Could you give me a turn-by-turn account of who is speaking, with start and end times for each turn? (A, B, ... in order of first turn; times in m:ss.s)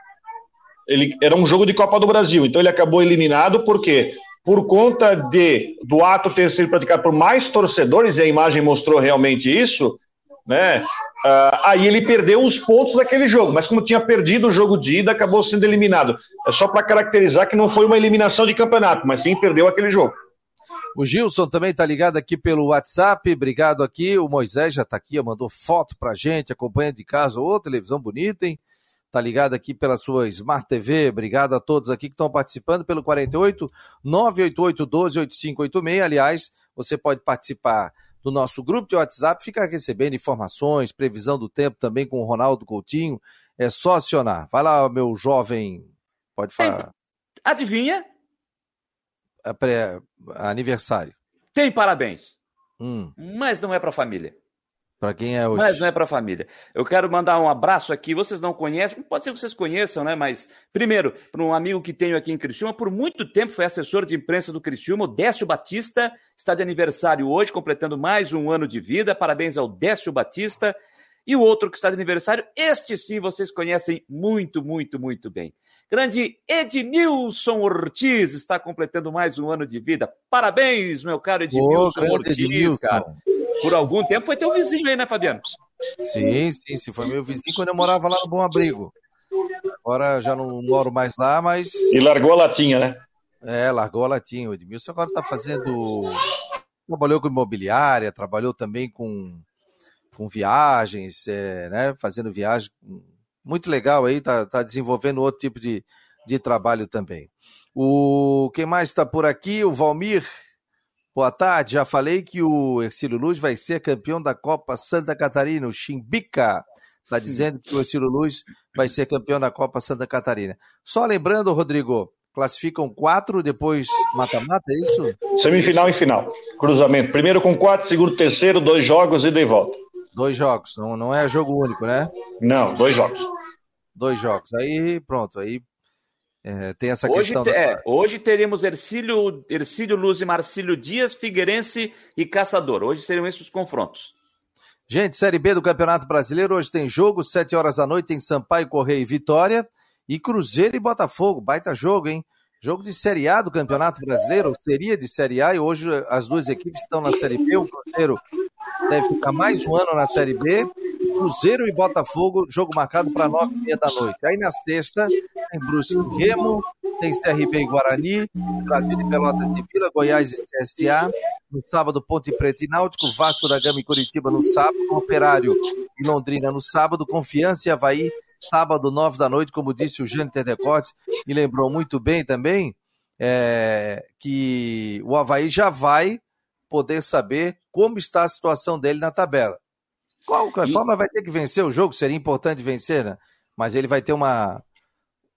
0:00.9-0:20.1 A
0:21.0-0:28.6 B
0:29.1-0:46.9 B
0:47.4-0:48.0 C
0:49.4-0:51.1 B
0:51.5-0:52.3 C
0:52.8-0:53.1 B
0:53.2-0:54.3 C
0:55.0-0:55.8 B
0:55.5-1:10.7 C
1:11.3-1:23.0 C
1:21.5-1:23.2 B
1:23.6-1:25.4 C
1:26.0-1:28.9 B
1:29.8-1:32.0 B
1:31.9-1:33.0 A
1:33.4-1:36.2 B
1:36.9-1:39.4 B
1:40.1-1:50.3 B
1:51.1-2:05.8 B
2:05.3-2:09.8 A
2:10.1-2:12.1 B
2:12.4-2:13.2 A
2:14.0-2:15.6 B
2:16.4-2:17.8 B
2:17.1-2:24.1 C
2:24.9-2:38.2 B
2:38.9-3:09.6 B
3:10.3-3:14.6 B